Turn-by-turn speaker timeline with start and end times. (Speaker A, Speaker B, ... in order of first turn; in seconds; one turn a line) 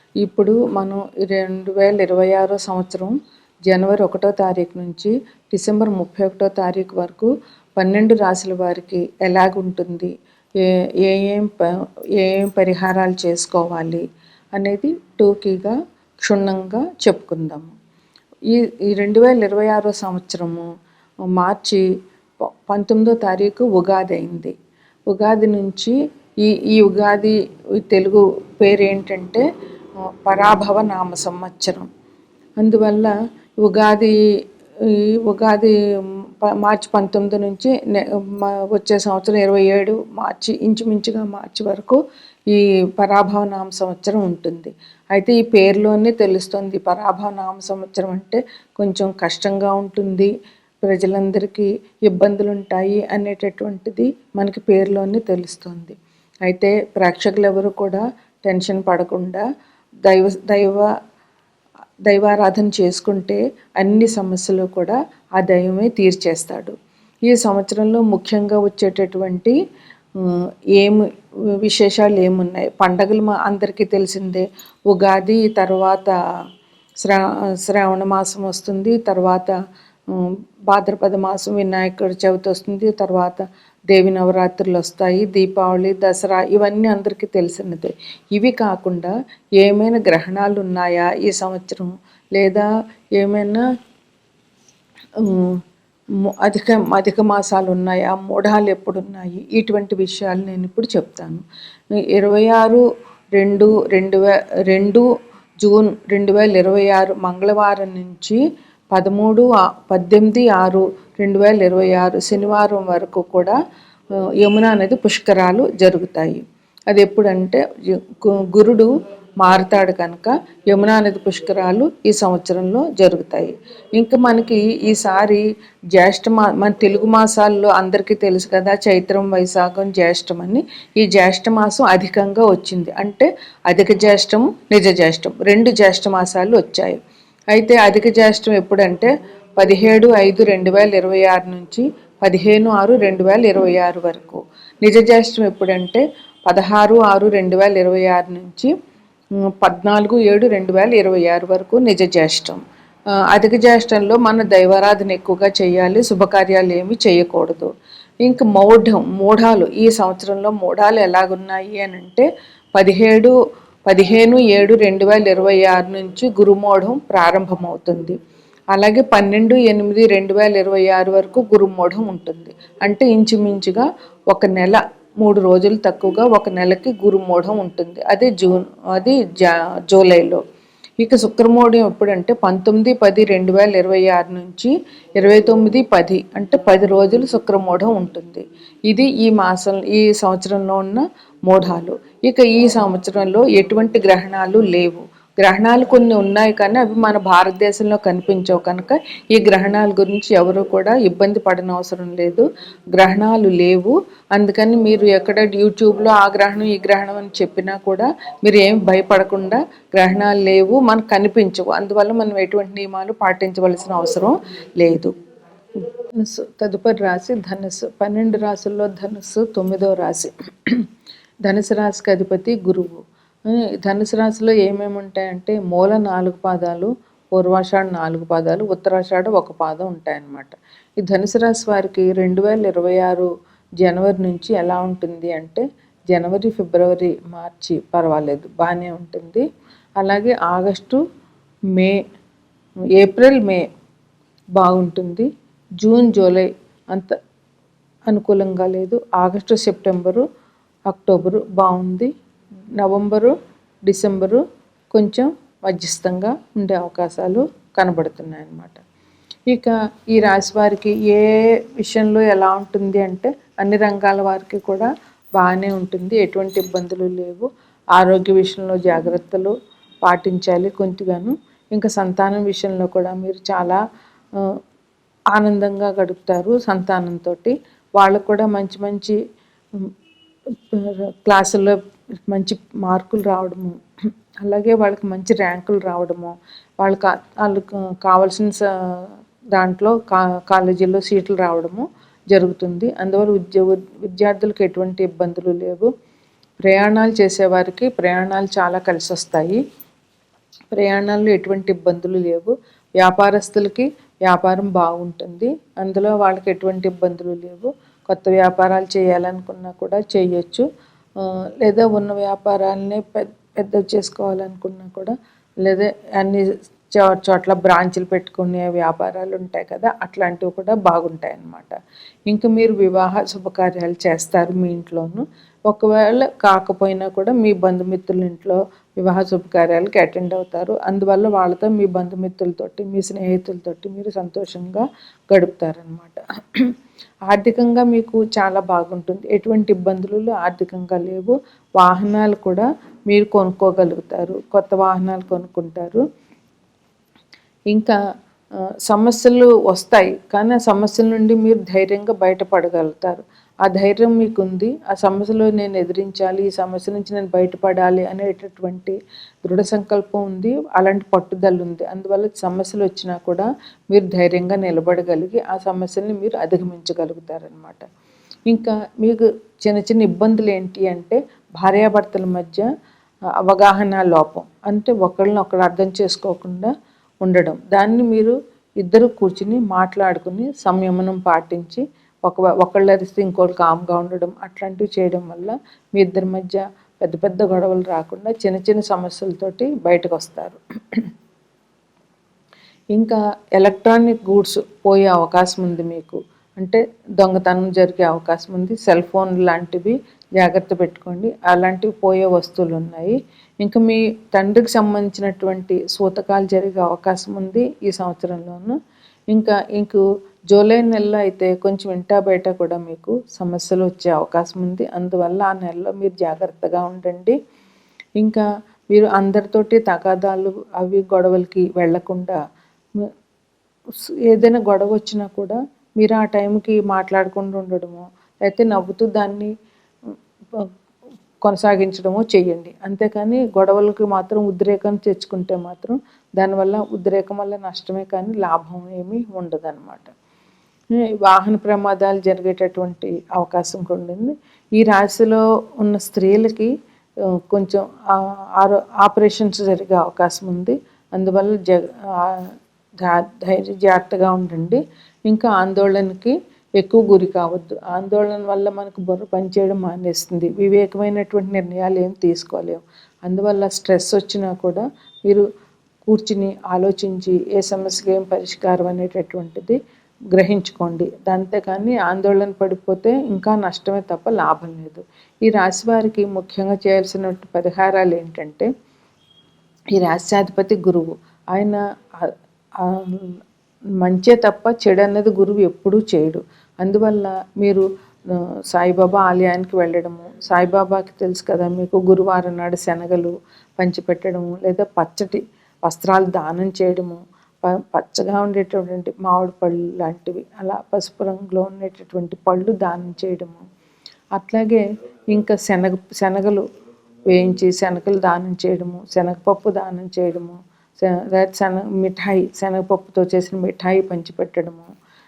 Speaker A: 0.2-3.1
Speaker A: 3.7-10.1
Speaker A: 10.6-14.0
Speaker A: 14.5-17.7
Speaker A: 18.5-20.7
Speaker A: 21.4-21.8
Speaker A: 22.4-24.5
Speaker A: 25.1-29.4
Speaker A: 30.2-31.9
Speaker A: 32.6-34.1
Speaker A: 34.8-50.3
Speaker A: 50.8-59.4
Speaker A: 60.0-60.9
Speaker A: 62.1-66.7
Speaker A: 67.3-69.5
Speaker A: 70.2-71.0
Speaker A: 71.6-76.1
Speaker A: 77.0-79.5
Speaker A: 80.1-93.6
Speaker A: 95.2-95.6
Speaker A: 96.4-101.4
Speaker A: 102.0-102.8
Speaker A: 103.3-105.0
Speaker A: 105.6-108.4
Speaker A: 108.9-113.6
Speaker A: 114.4-125.4
Speaker A: 125.9-137.0
Speaker A: 137.5-148.7
Speaker A: 149.6-152.6
Speaker A: 153.3-157.7
Speaker A: 158.2-163.3
Speaker A: 163.9-168.2
Speaker A: 168.7-180.4
Speaker A: 181.0-215.1
Speaker A: 216.2-220.8
Speaker A: 221.4-233.3
Speaker A: 233.8-239.4
Speaker A: 240.0-241.0
Speaker A: 243.0-243.6
Speaker A: 244.6-245.3
Speaker A: 245.8-247.2
Speaker A: 248.1-250.2
Speaker A: 250.9-252.1
Speaker A: 252.8-253.3
Speaker A: 253.9-258.8
Speaker A: 259.5-269.5
Speaker A: 270.0-273.8
Speaker A: 275.3-279.2
Speaker A: 280.7-281.8
Speaker A: 282.3-283.8
Speaker A: 284.4-295.9
Speaker A: 296.6-299.6
Speaker A: 300.7-310.6
Speaker A: 311.2-321.8
Speaker A: 322.3-336.7
Speaker A: 337.3-346.0
Speaker A: 347.7-348.0
Speaker A: 348.9-367.9
Speaker A: 368.5-372.7
Speaker A: 373.4-376.7
Speaker A: 377.2-391.0
Speaker A: 392.9-408.8
Speaker A: 409.3-417.4
Speaker A: 418.2-422.4
Speaker A: 424.3-429.5
Speaker A: 431.4-440.1
Speaker A: 440.9-446.7
Speaker A: 447.5-465.4
Speaker A: 466.1-469.8
Speaker A: 470.3-478.7
Speaker A: 479.9-483.4
Speaker A: 484.0-487.8
Speaker A: 488.3-503.6
Speaker A: 504.4-506.6
Speaker A: 507.3-514.9